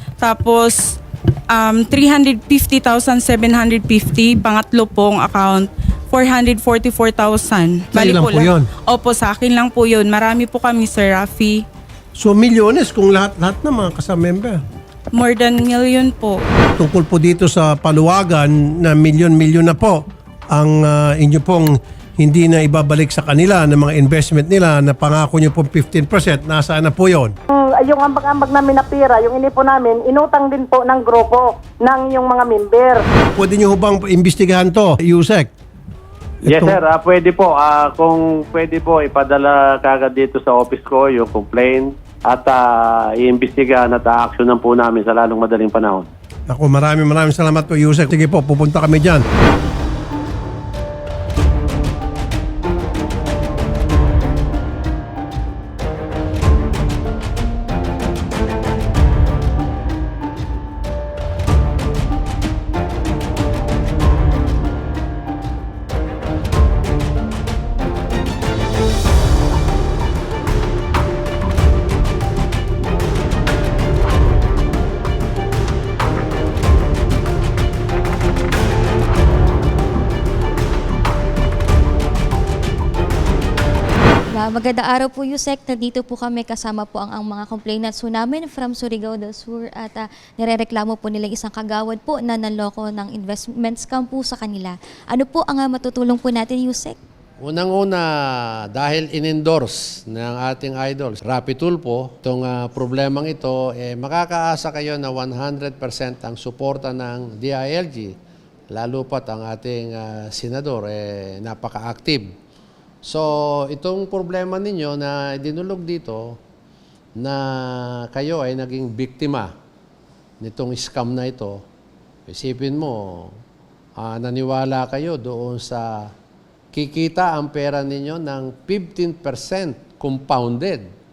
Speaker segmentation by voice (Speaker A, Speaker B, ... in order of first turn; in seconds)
Speaker A: 0.2-0.8, 1.6-11.6, 15.2-16.4
Speaker B: 7.9-8.7, 12.2-14.6, 16.8-27.3, 33.3-35.5, 36.4-36.8, 46.5-49.2
Speaker C: 27.5-33.0
Speaker D: 36.5-46.1
Speaker E: 84.3-97.0
Speaker F: 97.4-108.2, 108.7-112.3, 113.0-116.4, 117.2-119.5, 120.4-121.6, 122.3-123.4, 124.0-126.1, 126.7-130.8